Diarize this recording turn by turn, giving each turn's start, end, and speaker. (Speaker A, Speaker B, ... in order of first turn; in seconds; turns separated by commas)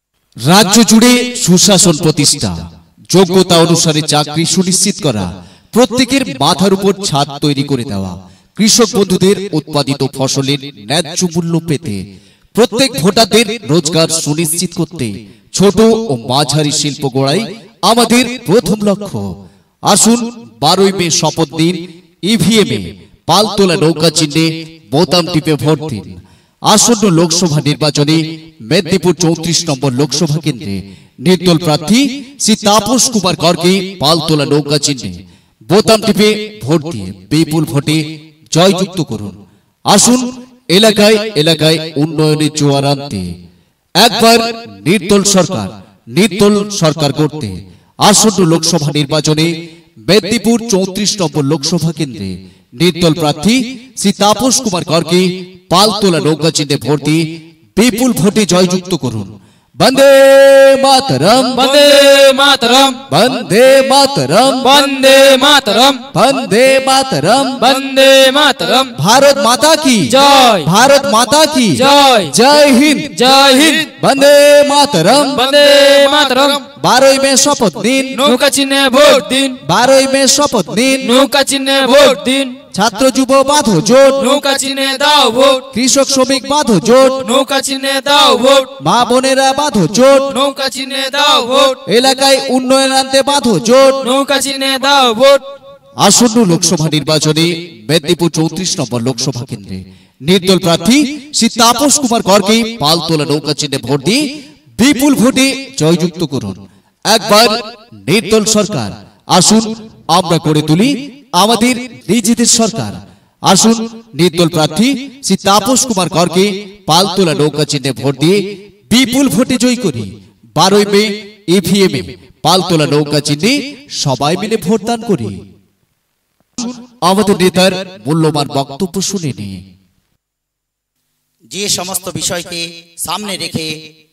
Speaker A: 0.5-2.5, Speaker A: 3.1-12.0, Speaker A: 12.6-19.2, Speaker A: 19.9-26.2, Speaker A: 26.7-35.1, Speaker A: 35.7-38.0, Speaker A: 38.5-39.4, Speaker A: 39.9-43.2, Speaker A: 44.0-49.5, Speaker A: 50.1-57.2, Speaker A: 57.8-61.7, Speaker B: 61.5-63.0, Speaker A: 63.1-64.8, Speaker B: 64.6-66.1, Speaker A: 66.1-67.7, Speaker B: 67.6-68.9, Speaker A: 69.0-73.3, Speaker B: 70.1-70.7, Speaker B: 71.8-72.3, Speaker B: 73.1-73.9, Speaker A: 73.9-75.4, Speaker B: 75.3-76.7, Speaker A: 76.8-78.2, Speaker B: 78.2-79.6, Speaker A: 79.7-81.1, Speaker B: 81.0-82.6, Speaker A: 82.7-84.3, Speaker B: 84.2-85.7, Speaker A: 85.7-87.2, Speaker B: 87.2-88.7, Speaker A: 88.8-90.3, Speaker B: 90.3-91.8, Speaker A: 91.9-94.1, Speaker B: 94.0-95.5, Speaker A: 96.0-104.2, Speaker A: 104.8-106.6, Speaker A: 107.1-118.4, Speaker A: 118.9-125.4, Speaker A: 126.6-129.6, Speaker C: 131.5-133.7